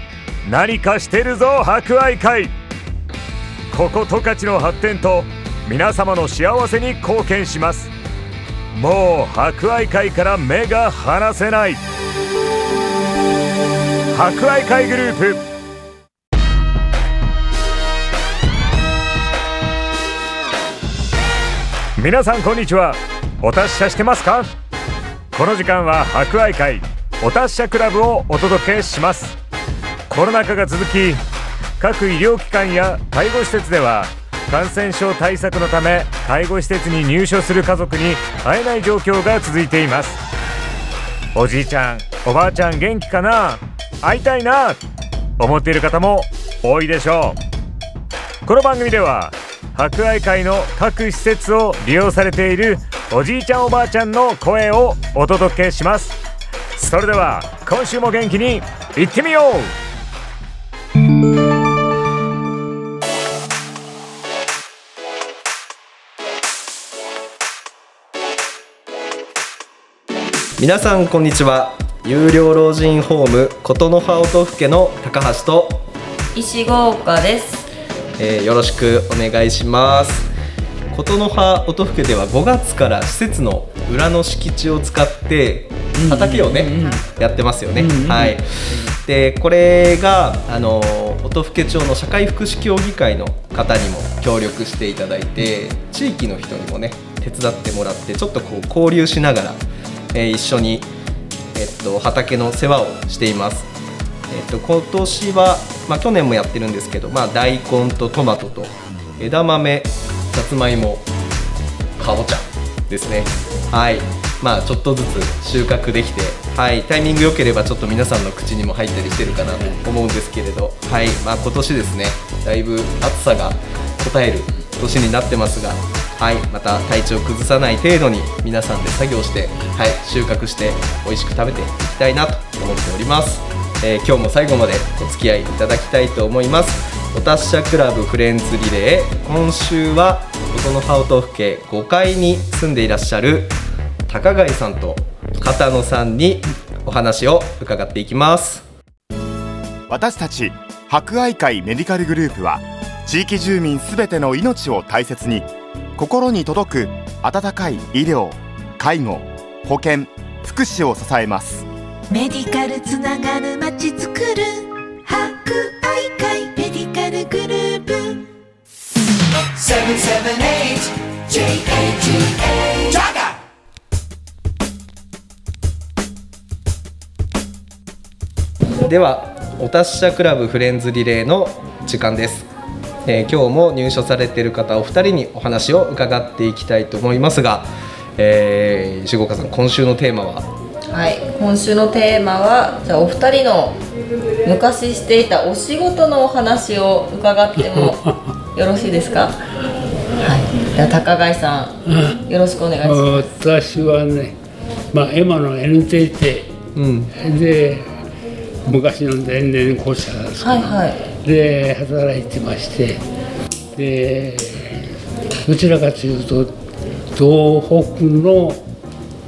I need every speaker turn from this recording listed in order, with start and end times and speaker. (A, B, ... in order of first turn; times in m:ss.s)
0:00.4-0:02.5 A
0:03.7-0:07.9 A
0:08.7-0:11.8 A
0:14.1-0:15.4 A
0:22.0-0:24.5 A
0:25.3-0:29.4 A
0:30.1-0:31.2 A
0:31.8-0:40.2 A
0:41.4-0:44.8 A
0:45.4-0:47.4 A
0:48.4-0:56.2 A
0:56.8-0:59.7 A
1:10.6-1:15.8 B
1:16.3-1:17.7 C
1:18.2-1:20.3 B
1:20.9-1:39.6 B
1:26.0-1:27.0 D
1:27.8-1:28.4 D
1:40.1-1:40.9 B
1:41.6-1:43.7 B
1:44.3-1:51.1 B
1:52.0-2:23.5 B
2:24.1-2:28.6 B
2:29.9-2:41.7 E
2:42.1-2:48.2 F
2:58.8-3:02.5 B
3:03.1-3:10.5 B
3:10.9-3:13.8 C
3:14.4-3:19.4 C
3:20.2-3:23.3 C
3:21.9-3:22.2 D
3:22.8-3:24.4 D
3:24.9-3:26.5 D
3:26.8-3:27.1 B
3:27.2-3:27.9 D
3:28.7-3:33.0 D
3:30.4-3:31.0 C
3:33.8-3:34.8 D
3:35.5-3:36.5 D
3:37.2-3:38.6 D